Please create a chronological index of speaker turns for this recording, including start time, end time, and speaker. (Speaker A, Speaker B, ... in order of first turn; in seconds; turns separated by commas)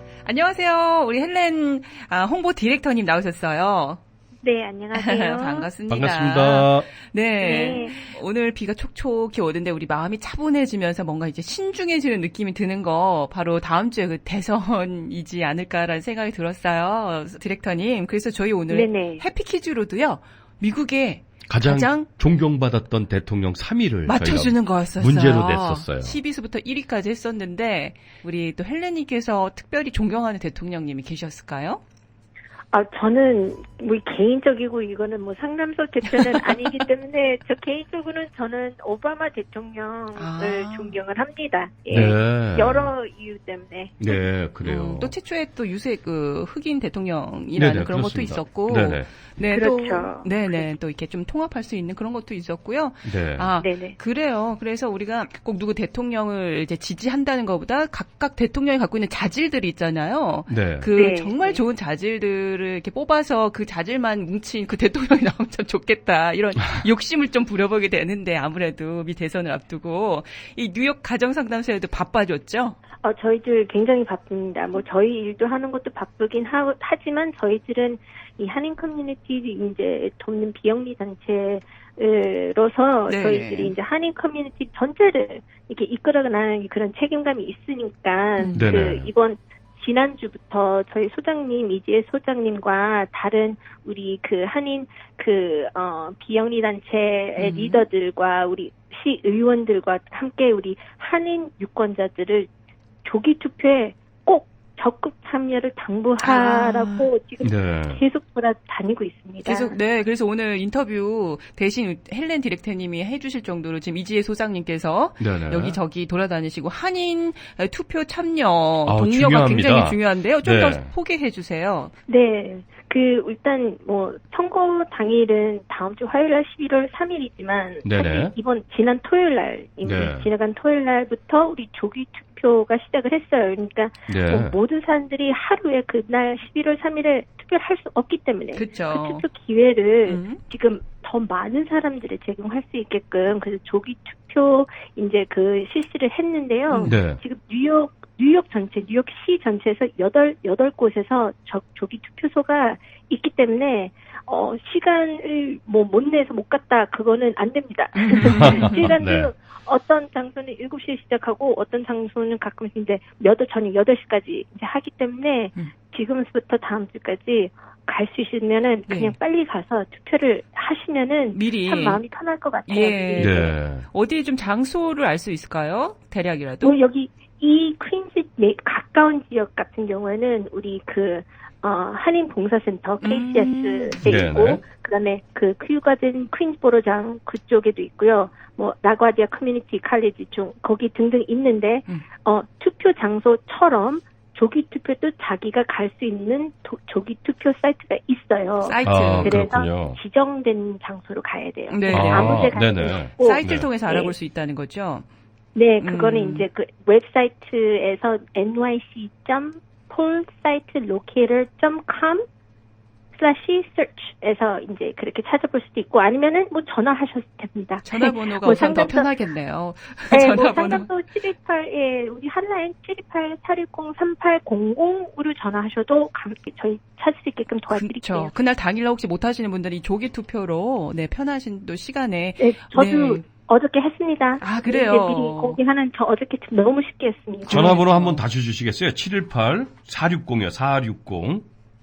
Speaker A: 0.2-4.0, Speaker B: 4.4-5.7, Speaker A: 4.9-22.1, Speaker C: 5.9-6.9, Speaker B: 7.4-8.0, Speaker B: 18.7-19.2, Speaker C: 21.5-26.2, Speaker A: 24.1-31.8, Speaker B: 32.7-44.2, Speaker A: 36.1-36.8, Speaker A: 40.1-41.0, Speaker C: 41.9-42.9, Speaker C: 44.0-45.1, Speaker A: 44.6-72.8, Speaker C: 47.5-49.1, Speaker B: 49.5-50.6, Speaker C: 53.0-53.5, Speaker B: 53.6-54.0, Speaker C: 60.5-60.9, Speaker B: 61.0-61.6, Speaker B: 73.0-102.5, Speaker A: 83.1-83.7, Speaker A: 88.4-88.7, Speaker C: 88.5-89.1, Speaker A: 97.4-97.8, Speaker B: 103.0-109.7, Speaker A: 106.2-107.1, Speaker C: 107.4-108.0, Speaker A: 109.4-121.9, Speaker C: 115.2-115.8, Speaker C: 118.8-120.9, Speaker B: 122.1-173.5, Speaker C: 127.8-128.3, Speaker C: 129.8-130.3, Speaker C: 134.1-134.6, Speaker A: 138.5-139.2, Speaker A: 140.1-140.4, Speaker A: 146.7-147.0, Speaker C: 146.8-147.2, Speaker A: 157.9-158.8, Speaker C: 158.2-159.3, Speaker A: 168.9-169.2, Speaker A: 171.3-172.0, Speaker A: 172.7-176.8, Speaker C: 173.2-173.8, Speaker B: 176.6-204.1, Speaker A: 183.0-184.0, Speaker C: 184.0-184.6, Speaker A: 198.6-199.4, Speaker C: 198.8-200.0, Speaker A: 201.7-202.6, Speaker C: 201.9-203.7, Speaker A: 203.1-205.0, Speaker B: 205.5-212.2, Speaker A: 205.8-206.5, Speaker B: 213.1-219.1, Speaker A: 217.8-220.9, Speaker B: 220.1-228.3, Speaker A: 227.7-233.2, Speaker B: 232.4-237.8, Speaker A: 234.4-235.6, Speaker A: 237.4-238.2, Speaker C: 237.5-241.4